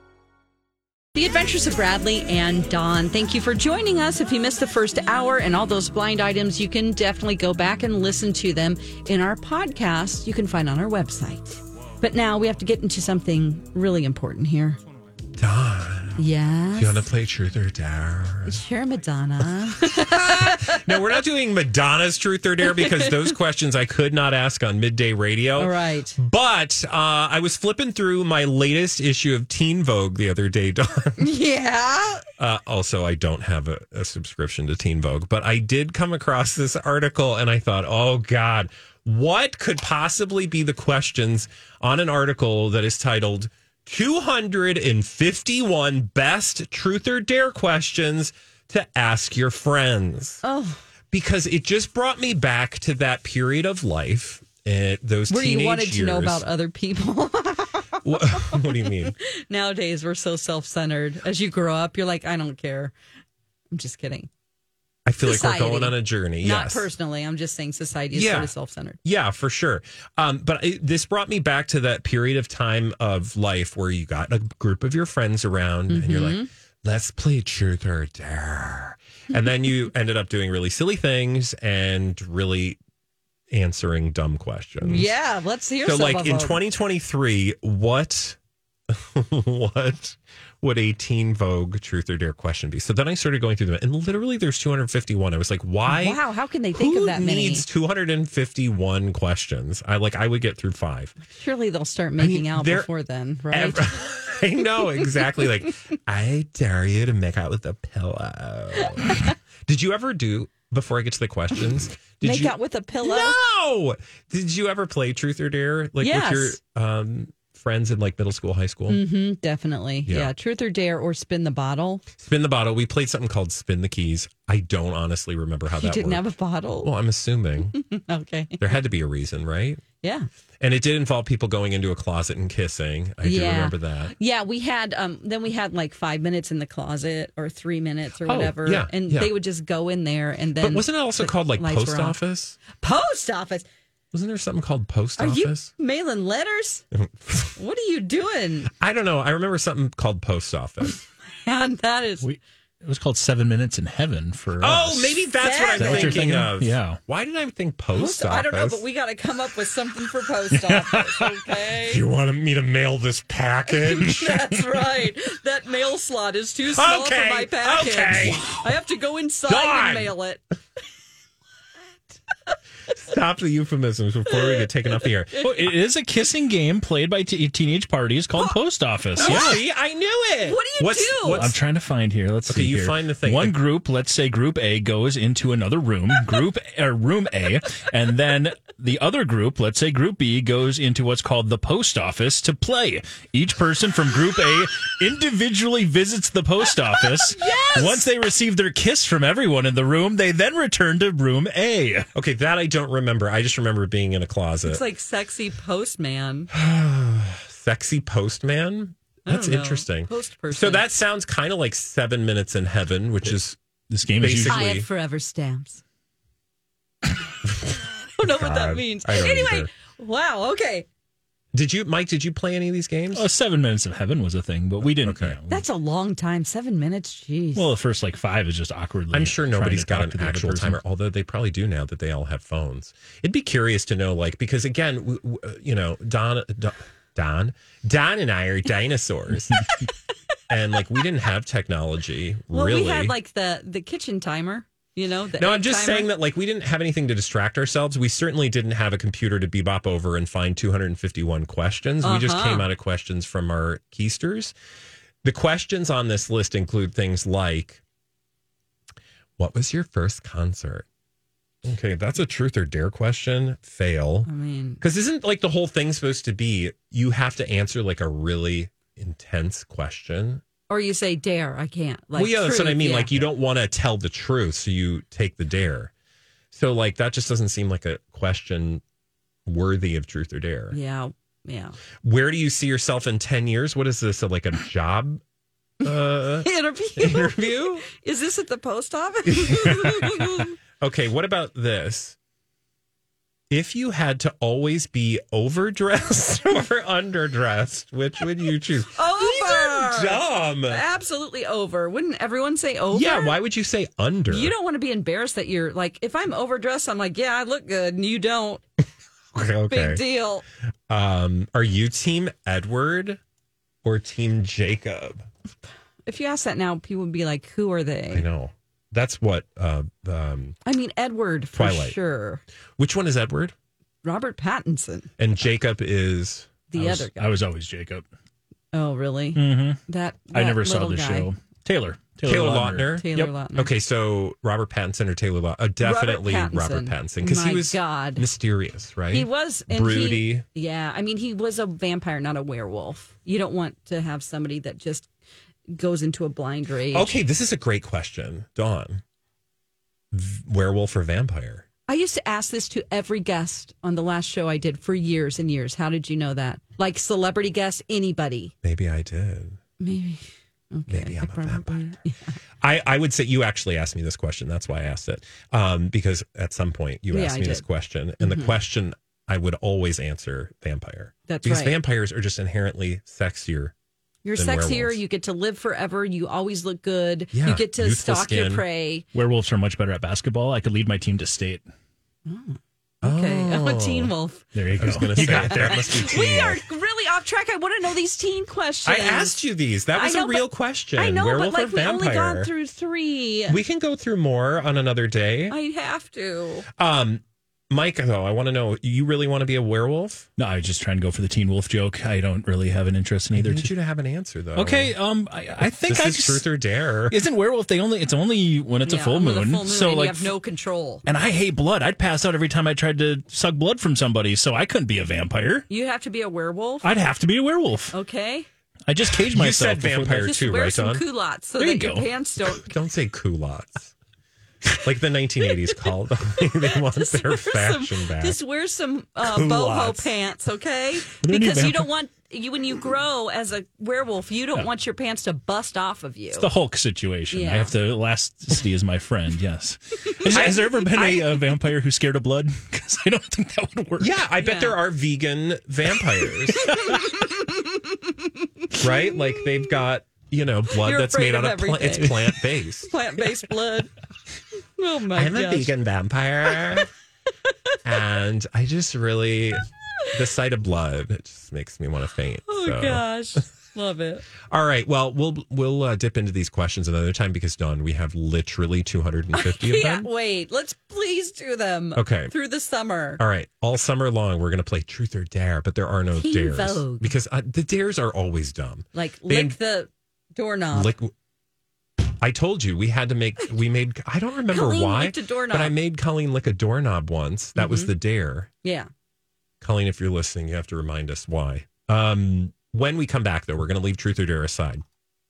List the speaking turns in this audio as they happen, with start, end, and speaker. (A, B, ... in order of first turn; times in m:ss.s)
0:01.2-0:14.8 A
0:15.4-0:18.6 B
0:16.2-0:17.1 A
0:18.5-0:21.0 A
0:20.0-0:31.3 B
0:22.6-0:23.2 A
0:25.6-0:26.2 A
0:31.2-0:32.2 A
0:32.4-0:50.4 B
0:50.4-0:50.8 A
0:51.1-0:56.4 B
0:55.3-1:02.9 A
0:58.0-0:59.2 B
1:03.7-1:04.3 A
1:05.1-1:06.9 B
1:05.2-1:09.0 A
1:08.1-1:08.5 B
1:09.0-1:22.8 B
1:15.9-1:16.5 A
1:23.5-1:25.1 B
1:24.8-1:26.6 A
1:25.8-1:28.4 B
1:28.9-1:36.2 B
1:35.9-1:37.6 A
1:36.7-1:41.2 B
1:41.2-1:43.9 A
1:42.2-1:42.9 B
1:43.5-1:59.0 B
1:52.2-1:53.4 A
1:56.0-1:56.6 A
1:58.9-2:02.1 A
2:00.1-2:00.3 B
2:02.1-2:07.8 B
2:05.7-2:06.9 A
2:07.6-2:08.6 A
2:08.6-2:09.8 B
2:10.0-2:10.3 A
2:10.6-2:14.1 B
2:13.2-2:22.2 A
2:18.2-2:19.3 B
2:20.6-2:22.6 B
2:22.7-2:23.7 A
2:24.1-2:25.7 B
2:25.2-2:26.8 A
2:26.9-2:27.6 B
2:27.6-2:28.7 A
2:28.7-2:31.0 B
2:31.4-2:32.3 A
2:32.2-2:37.0 C
2:34.6-2:38.8 B
2:35.4-2:36.3 A
2:38.0-2:42.0 A
2:40.5-2:41.3 C
2:41.8-2:44.5 B
2:43.7-2:50.4 A
2:46.7-2:48.7 B
2:49.5-2:50.1 B
2:52.9-2:55.5 B
2:54.3-2:54.7 A
2:55.4-2:59.6 C
2:59.2-2:59.6 A
2:59.2-3:01.6 B
3:00.5-3:01.5 A
3:01.3-3:22.1 C
3:02.5-3:03.6 B
3:17.3-3:18.0 A
3:22.2-3:24.8 B
3:24.6-3:26.5 A
3:26.5-3:33.6 B
3:29.3-3:30.8 A
3:33.9-3:34.7 C
3:34.2-3:34.9 B
3:34.5-3:35.8 A
3:37.5-3:39.7 B
3:38.2-3:40.9 A
3:41.5-3:43.3 B
3:43.1-3:45.6 C
3:44.8-3:45.4 B
3:45.5-3:47.7 A
3:47.6-3:50.8 C
3:49.1-3:59.7 B
4:00.5-4:03.2 B
4:02.5-4:06.1 A
4:05.4-4:14.5 B
4:12.0-4:12.7 A
4:15.2-4:17.8 B
4:19.4-4:20.9 B
4:21.6-4:24.3 B
4:24.3-4:24.8 A
4:24.8-4:30.4 B
4:30.7-4:33.2 A
4:32.2-4:35.9 B
4:36.5-4:38.8 B
4:39.5-4:40.8 B
4:40.7-4:41.8 A
4:42.0-4:45.2 B
4:45.8-4:47.9 B
4:45.8-4:50.6 A
4:49.3-4:52.2 B
4:53.5-5:00.8 B
4:58.9-5:03.4 A
5:02.9-5:04.5 B
5:04.3-5:08.6 A
5:09.3-5:10.0 B
5:09.7-5:10.4 A
5:10.9-5:13.2 B
5:13.8-5:15.2 B
5:16.0-5:18.3 A
5:18.1-5:20.6 B
5:20.7-5:22.4 A
5:21.5-5:22.0 B
5:22.8-5:23.5 B
5:24.0-5:25.1 A
5:25.2-5:26.6 B
5:26.7-5:27.4 A
5:26.8-5:28.0 C
5:28.7-5:31.3 A
5:29.4-5:29.8 C
5:30.3-5:33.0 C
5:32.2-5:40.4 B
5:33.0-5:33.7 A
5:35.8-5:38.2 A
5:39.1-5:45.1 A
5:45.7-5:47.2 A
5:46.9-5:49.0 B
5:50.1-5:51.6 B
5:51.9-5:58.5 A
5:58.6-5:59.6 B
5:59.8-6:02.4 A
6:00.9-6:01.9 B
6:02.6-6:13.7 B
6:07.1-6:07.6 A
6:08.2-6:08.5 A
6:11.3-6:11.8 A
6:14.2-6:19.0 A
6:14.4-6:15.0 B
6:17.3-6:18.6 B
6:19.1-6:21.6 C
6:22.3-6:24.4 A
6:23.0-6:24.1 B
6:24.6-6:26.2 C
6:24.8-6:26.6 B
6:25.2-6:29.4 A
6:28.8-6:32.5 B
6:29.9-6:30.4 A
6:31.0-6:33.6 A
6:33.5-6:35.6 B
6:35.5-6:36.7 A
6:36.8-6:40.3 B
6:40.4-6:43.7 C
6:43.3-6:44.9 B
6:44.6-6:46.5 C
6:45.6-6:47.2 B
6:47.1-6:50.3 C
6:48.9-6:51.0 A
6:51.0-6:55.7 C
6:55.7-6:56.9 A
6:56.8-6:58.0 C
6:57.9-6:58.5 A
6:58.9-7:00.4 C
6:59.3-7:01.0 B
7:00.2-7:02.7 A
7:01.6-7:02.1 C
7:02.6-7:04.0 B
7:04.8-7:08.4 B
7:06.8-7:16.5 A
7:09.2-7:10.1 B
7:11.2-7:11.8 B
7:11.2-7:11.8 C
7:16.3-7:24.1 C
7:17.3-7:17.7 A
7:20.2-7:21.2 A
7:20.3-7:20.6 B
7:24.0-7:26.9 B
7:24.4-7:24.8 A
7:26.6-7:29.7 A
7:26.7-7:27.0 C
7:28.8-7:32.9 B
7:30.8-7:32.2 A
7:32.8-7:33.9 A
7:34.8-7:35.7 A
7:35.1-7:36.9 B
7:37.8-7:43.0 B
7:42.5-7:44.3 A
7:44.4-7:50.1 B
7:49.3-7:53.2 A
7:52.0-7:52.3 B
7:53.2-7:59.6 B
7:56.2-7:57.1 A
7:58.9-8:00.9 A
8:00.7-8:01.1 B
8:02.2-8:08.5 B
8:04.5-8:05.7 A
8:07.6-8:07.9 A
8:08.6-8:08.9 A
8:09.6-8:14.8 B